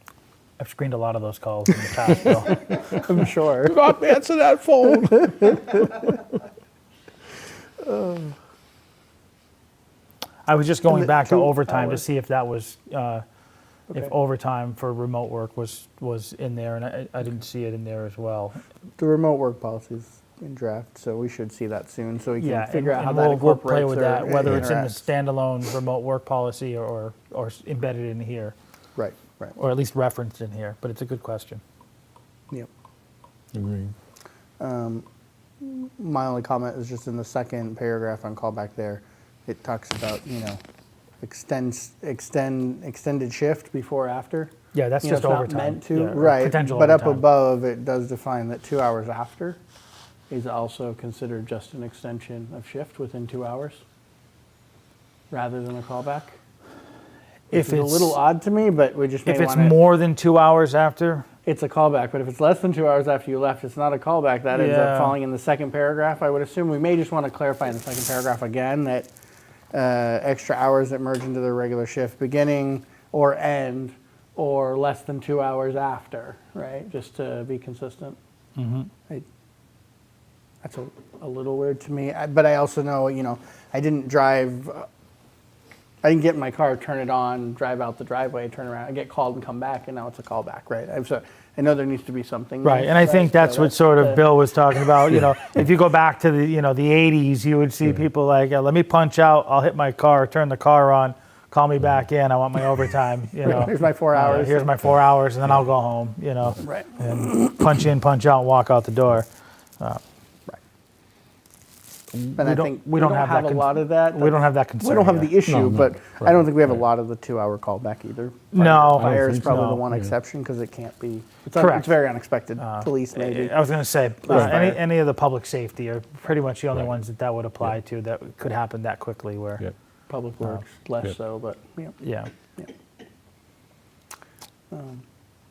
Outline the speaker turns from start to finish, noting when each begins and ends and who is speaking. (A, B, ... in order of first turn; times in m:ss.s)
0:00.6-0:02.8 A
0:02.5-0:04.0 B
0:03.6-0:05.9 C
0:04.8-0:06.3 B
0:07.8-0:08.4 B
0:10.5-0:13.2 A
0:10.9-0:12.0 B
0:13.9-0:18.6 A
0:19.0-0:25.0 B
0:22.4-0:28.6 A
0:29.0-0:29.6 B
0:29.6-0:31.6 A
0:33.5-0:34.0 C
0:34.6-0:35.0 B
0:35.6-0:40.6 B
0:41.2-0:44.5 B
0:44.7-0:47.2 A
0:45.0-0:49.6 B
0:50.3-0:53.8 B
0:55.3-0:56.4 B
0:57.5-0:58.2 A
0:57.5-0:59.8 B
0:59.3-1:01.2 A
1:01.4-1:09.1 B
1:04.5-1:05.2 A
1:09.7-1:18.2 B
1:18.6-1:18.9 A
1:20.6-1:24.9 B
1:26.0-1:34.3 B
1:32.6-1:49.3 A
1:43.4-1:44.8 B
1:46.6-1:47.3 B
1:52.1-1:55.4 A
1:52.4-2:03.6 B
1:55.4-1:56.8 C
1:58.5-1:59.8 A
1:58.6-2:00.1 C
2:01.5-2:02.0 A
2:02.6-2:09.7 A
2:04.2-2:04.8 B
2:10.1-2:12.0 B
2:12.0-2:12.3 A
2:14.7-2:15.0 B